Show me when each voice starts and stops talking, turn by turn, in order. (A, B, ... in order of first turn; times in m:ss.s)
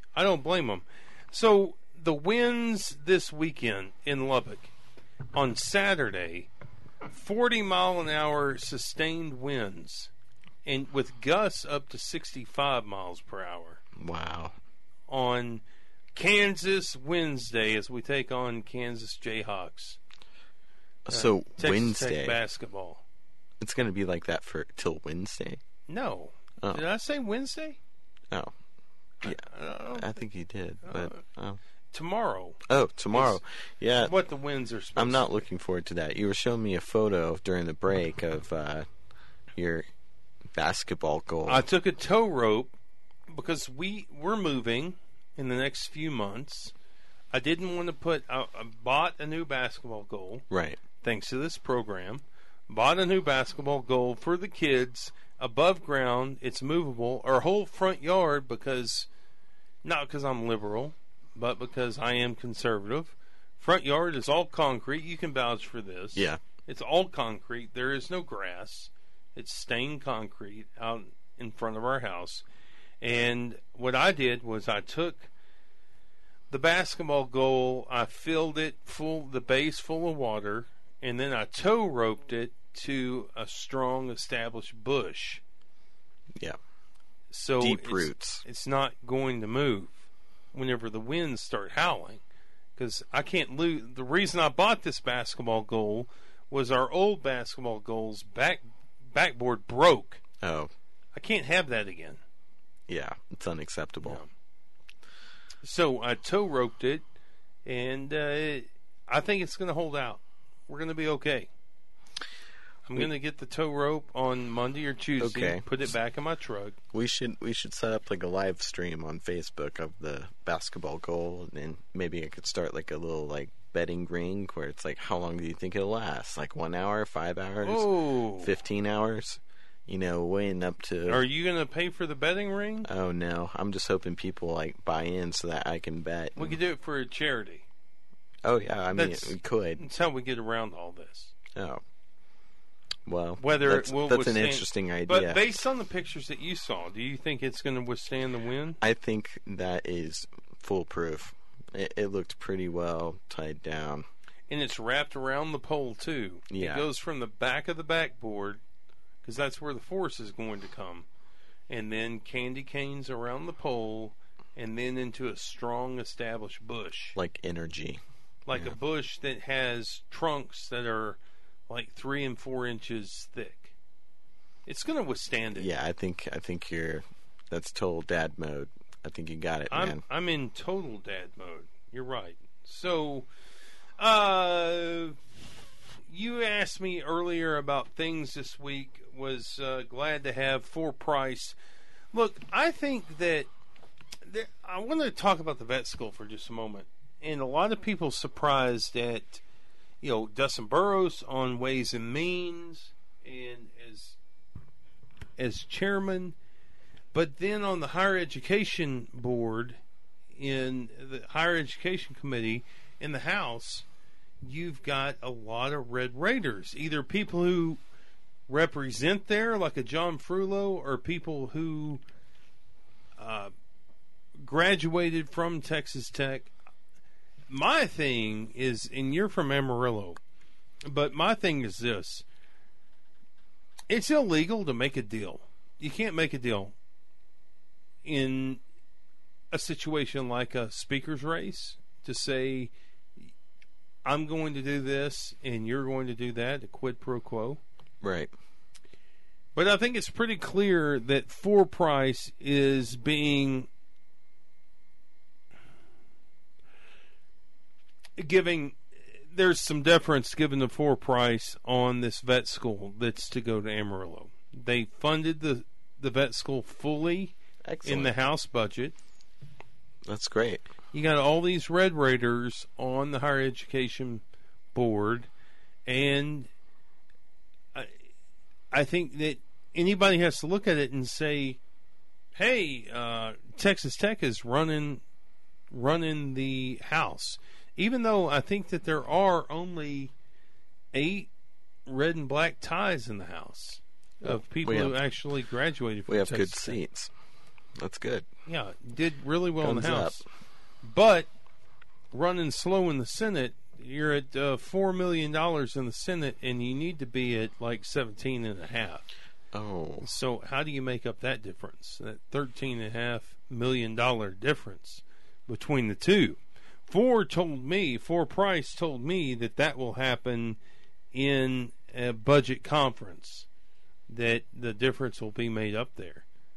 0:00.1-0:04.7 A
0:05.3-0:06.5 A
0:07.1-0:10.1 A
0:10.6-0:13.8 A
0:14.0-0:14.5 B
0:15.1-0:15.6 A
0:16.1-0:20.0 A
0:21.0-0:22.4 B
0:21.1-0:23.0 A
0:23.6-0:25.6 B
0:25.9-0:27.8 A
0:29.2-0:30.2 A
0:29.2-0:31.6 B
0:30.8-0:31.2 A
0:31.9-0:32.6 A
0:32.6-0:34.1 B
0:33.1-0:33.4 A
0:34.0-0:35.3 A
0:35.0-0:38.9 B
0:39.5-0:39.9 B
0:40.5-0:41.6 B
0:41.5-0:42.7 A
0:43.3-0:46.7 A
0:47.3-0:50.4 A
0:50.5-0:50.8 B
0:51.0-0:59.1 A
0:59.8-1:12.4 A
1:06.1-1:06.4 B
1:13.0-1:15.3 A
1:16.5-1:25.4 A
1:27.3-1:30.0 A
1:27.6-1:28.4 B
1:30.5-1:32.2 A
1:32.8-1:40.2 A
1:40.4-1:40.7 B
1:41.1-1:42.2 A
1:42.9-1:44.2 B
1:44.0-1:44.3 A
1:45.6-1:47.0 A
1:47.6-1:51.5 A
1:52.9-1:56.8 A
1:55.2-1:55.6 B
1:56.9-2:11.2 B
2:07.6-2:08.5 A
2:11.1-2:12.9 A
2:12.8-2:16.6 B
2:16.4-2:17.6 A
2:18.4-2:19.8 B
2:18.9-2:21.3 A
2:21.5-2:21.8 B
2:23.0-2:25.4 B
2:23.4-2:28.8 A
2:28.8-2:34.0 B
2:34.5-2:38.6 A
2:36.5-2:36.9 B
2:39.2-2:41.1 A
2:41.7-2:47.2 A
2:47.2-2:48.0 B
2:48.4-2:51.2 A
2:51.7-2:53.7 A
2:54.6-2:55.7 A
2:55.5-3:00.0 B
2:59.7-3:03.3 A
3:04.0-3:05.2 A
3:06.1-3:11.6 A
3:12.1-3:13.5 A
3:14.2-3:19.4 A
3:20.0-3:24.2 A
3:25.4-3:26.4 A
3:27.1-3:29.8 A
3:30.4-3:33.8 A
3:34.4-3:37.8 A
3:38.5-3:42.0 A
3:43.2-3:43.5 A
3:44.4-3:46.5 A
3:47.5-3:50.2 A
3:50.8-3:52.2 A
3:53.9-3:56.7 A
3:58.0-3:58.6 A
3:59.5-4:02.7 A
4:04.0-4:07.6 A
4:08.0-4:08.3 B
4:09.5-4:13.7 A
4:18.2-4:18.8 A
4:19.3-4:28.9 A
4:27.6-4:28.1 B
4:30.0-4:30.6 B
4:30.9-4:34.2 A
4:34.7-4:35.3 A
4:35.8-4:36.5 A
4:38.7-4:41.6 A
4:42.4-4:45.0 A
4:45.7-4:50.1 A
4:50.9-4:51.3 A
4:51.8-4:56.8 A
4:54.2-4:55.0 B
4:56.1-4:57.1 B
4:57.8-4:58.3 B
4:58.5-5:00.2 A
4:59.6-5:00.2 B
5:00.8-5:01.3 A
5:02.1-5:09.1 A
5:09.5-5:10.1 B
5:10.0-5:20.6 A
5:21.1-5:23.5 A
5:24.1-5:26.2 A